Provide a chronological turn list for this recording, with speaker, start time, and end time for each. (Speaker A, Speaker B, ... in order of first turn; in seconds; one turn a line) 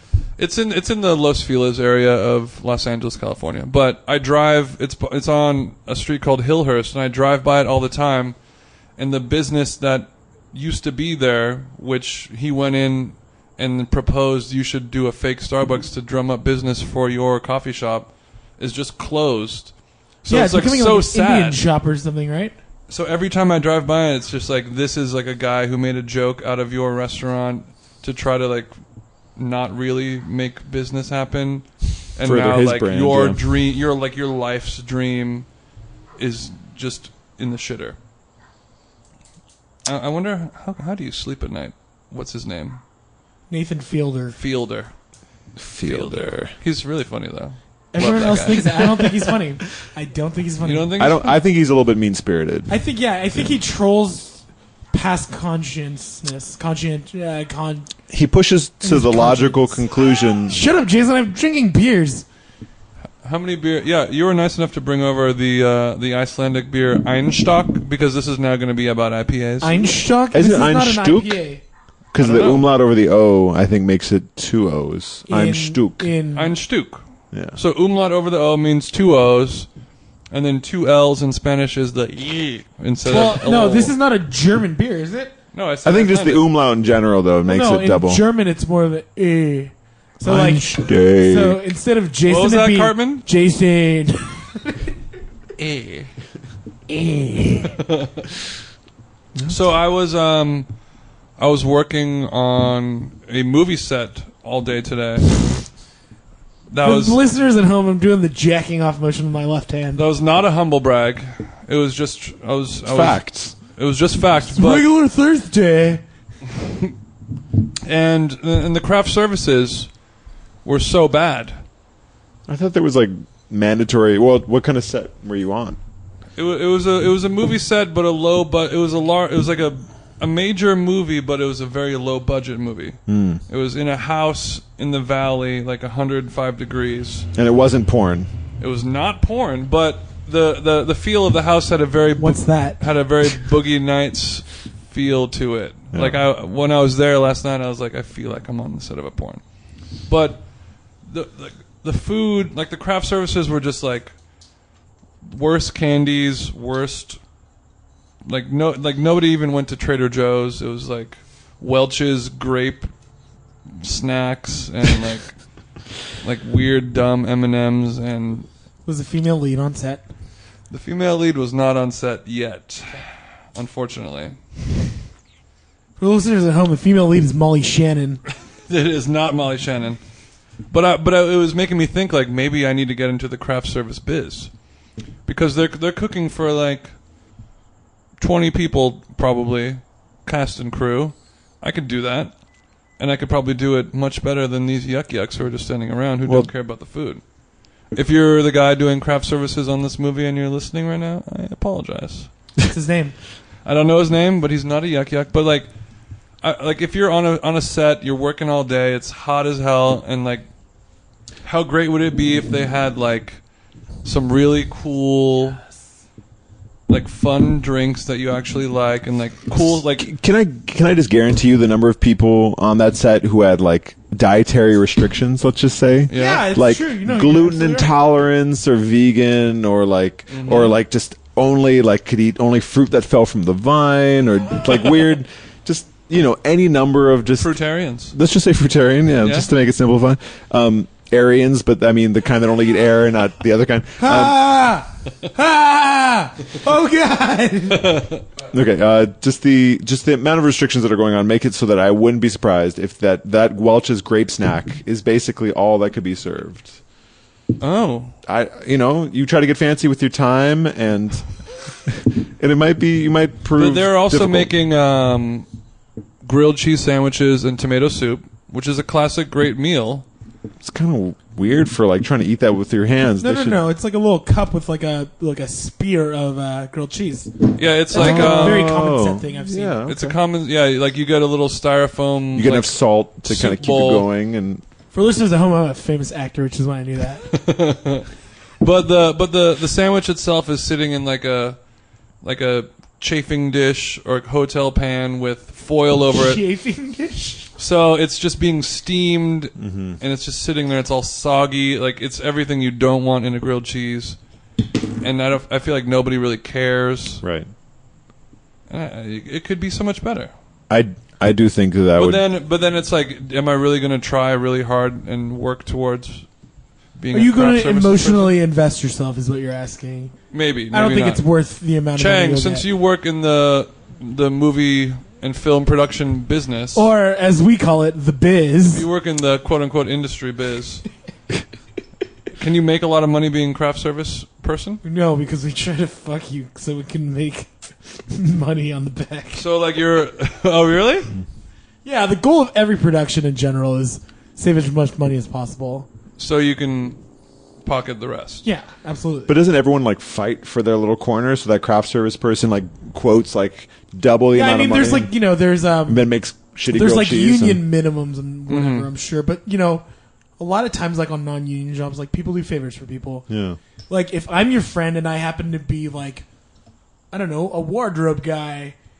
Speaker A: 0.4-8.4
Speaker A: 9.0-21.6
Speaker B: 20.3-22.6
Speaker A: 22.9-28.7
Speaker A: 29.4-35.5
Speaker C: 32.2-33.4
Speaker A: 36.2-38.0
Speaker A: 39.9-42.8
Speaker B: 43.5-44.4
Speaker A: 44.3-44.9
Speaker C: 45.6-46.5
Speaker A: 45.8-49.0
Speaker B: 47.9-51.1
Speaker A: 50.6-51.4
Speaker C: 51.0-52.8
Speaker B: 52.7-57.9
Speaker C: 58.1-60.6
Speaker B: 58.8-59.9
Speaker B: 60.4-62.3
Speaker A: 63.2-69.9
Speaker B: 69.6-71.6
Speaker C: 70.3-71.4
Speaker C: 72.1-76.1
Speaker A: 72.2-72.7
Speaker B: 75.3-76.6
Speaker A: 76.3-77.0
Speaker C: 77.3-77.6
Speaker A: 77.5-79.7
Speaker A: 80.3-84.0
Speaker B: 83.0-85.3
Speaker A: 85.5-86.5
Speaker C: 85.8-88.2
Speaker B: 87.5-94.9
Speaker C: 90.2-91.6
Speaker A: 92.2-93.3
Speaker B: 96.9-97.8
Speaker A: 97.7-98.2
Speaker A: 99.5-100.7
Speaker A: 101.4-105.3
Speaker A: 106.7-107.2
Speaker B: 106.8-110.0
Speaker A: 110.0-114.9
Speaker C: 112.9-113.6
Speaker B: 114.5-116.0
Speaker A: 117.8-119.9
Speaker A: 120.7-121.6
Speaker C: 122.5-125.8
Speaker A: 126.4-137.3
Speaker C: 133.1-133.4
Speaker C: 137.3-138.3
Speaker A: 138.6-149.4
Speaker B: 142.2-142.9
Speaker C: 145.9-146.2
Speaker A: 150.0-150.5
Speaker A: 151.0-154.2
Speaker A: 155.2-157.2
Speaker A: 158.3-162.9
Speaker A: 163.8-165.3
Speaker A: 166.2-168.5
Speaker B: 168.9-170.1
Speaker A: 170.7-174.4
Speaker B: 176.0-178.2
Speaker A: 178.7-180.0
Speaker A: 180.7-184.5
Speaker A: 185.3-186.9
Speaker A: 188.2-192.3
Speaker A: 193.0-197.2
Speaker A: 197.9-202.3
Speaker B: 202.6-203.2
Speaker A: 203.7-205.7
Speaker A: 206.4-210.5
Speaker A: 211.4-213.4
Speaker A: 214.0-215.6
Speaker A: 216.9-220.1
Speaker C: 219.8-237.6
Speaker A: 226.1-226.5
Speaker B: 226.1-227.9
Speaker A: 230.3-230.7
Speaker A: 237.4-238.2
Speaker C: 238.1-244.4
Speaker A: 239.2-239.5
Speaker B: 244.0-248.1
Speaker A: 247.7-248.2
Speaker C: 248.5-256.8
Speaker A: 257.6-258.1
Speaker C: 258.3-261.3
Speaker C: 261.8-264.5
Speaker A: 263.6-265.5
Speaker A: 266.2-270.1
Speaker C: 270.6-273.6
Speaker B: 273.2-279.8
Speaker A: 277.6-278.7
Speaker C: 277.9-280.2
Speaker A: 279.9-284.1
Speaker C: 282.4-284.6
Speaker B: 284.9-287.4
Speaker A: 287.3-288.1
Speaker A: 288.6-291.6
Speaker A: 292.2-296.4
Speaker B: 296.1-297.5
Speaker A: 297.6-304.2
Speaker C: 299.6-300.0
Speaker A: 305.0-307.2
Speaker C: 307.2-307.5
Speaker A: 308.7-310.3
Speaker C: 310.7-312.2
Speaker A: 312.0-316.3
Speaker A: 317.0-318.4
Speaker B: 317.1-320.1
Speaker A: 320.3-321.2
Speaker B: 320.7-322.7
Speaker A: 322.0-326.9
Speaker B: 326.8-328.9
Speaker A: 328.7-330.9
Speaker A: 332.4-334.8
Speaker B: 334.8-339.4
Speaker A: 339.3-341.1
Speaker B: 341.9-345.9
Speaker A: 346.2-347.0
Speaker A: 347.6-348.5
Speaker B: 348.4-349.4
Speaker C: 349.3-355.1
Speaker B: 354.3-356.1
Speaker C: 355.9-357.6
Speaker B: 356.7-359.8
Speaker A: 358.5-358.9
Speaker B: 360.4-363.3
Speaker C: 363.3-363.6
Speaker B: 363.9-366.2
Speaker B: 367.1-368.8